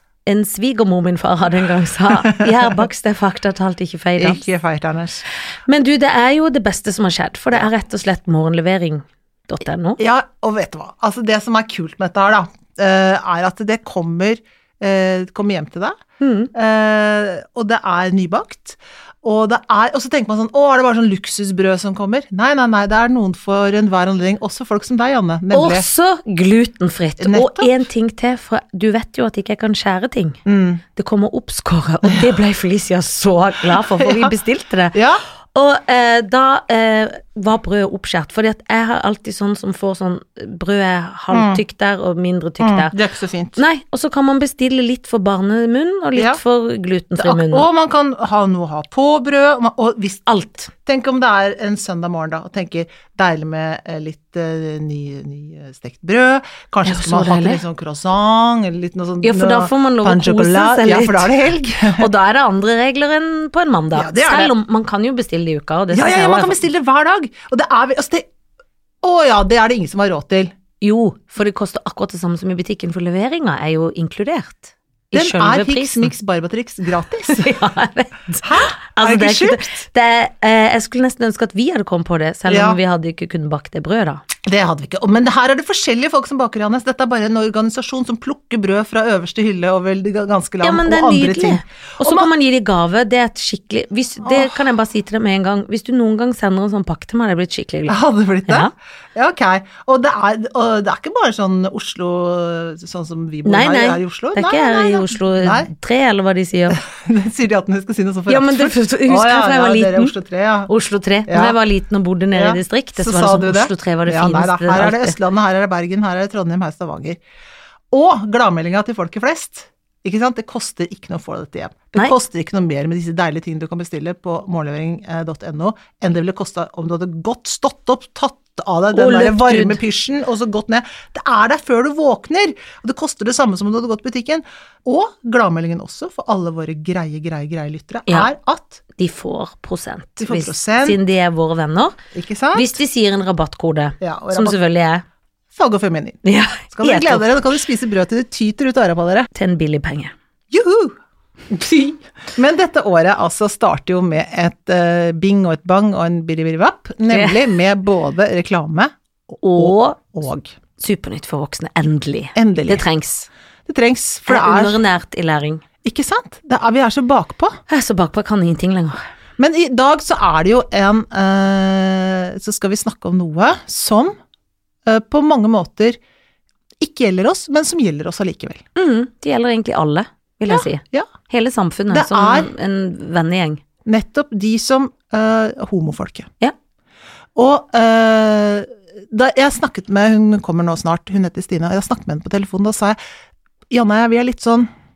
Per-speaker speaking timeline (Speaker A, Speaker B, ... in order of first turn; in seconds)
Speaker A: 0.2-4.4, 5.7-10.0, 16.2-16.5, 25.5-30.4, 30.9-35.0, 35.5-42.9, 43.6-47.7, 50.3-50.7, 56.8-57.6, 59.2-61.3, 61.9-66.6, 70.8-76.1, 77.3-84.2, 90.6-98.7, 103.4-106.8, 108.3-110.1, 110.7-115.2, 128.9-129.8, 138.9-141.9, 142.5-145.0, 146.2-147.5, 149.3-150.1, 157.1-157.5, 159.4-160.1, 160.8-163.3, 164.3-165.6, 167.7-169.0, 178.8-183.6
Speaker B: 4.2-5.2, 10.0-16.0, 16.5-25.9, 27.2-27.7, 30.4-30.8, 33.9-34.3, 34.9-35.2, 41.3-41.6, 42.6-43.6, 47.2-50.2, 50.8-62.1, 63.9-64.5, 65.9-68.2, 69.0-70.5, 75.1-77.5, 78.4-79.7, 82.5-82.8, 84.4-92.3, 94.2-94.6, 97.9-105.7, 106.7-110.7, 111.3-111.6, 112.3-117.2, 117.9-138.8, 140.2-141.0, 142.1-142.7, 144.0-144.6, 145.5-149.3, 150.5-150.9, 151.5-160.5, 162.3-162.8, 163.7-164.8, 165.8-167.6, 169.4-174.1, 174.8-176.0, 176.8-178.6, 180.5-181.1, 181.9-182.5, 183.8-186.3, 187.3-193.0, 193.7-194.7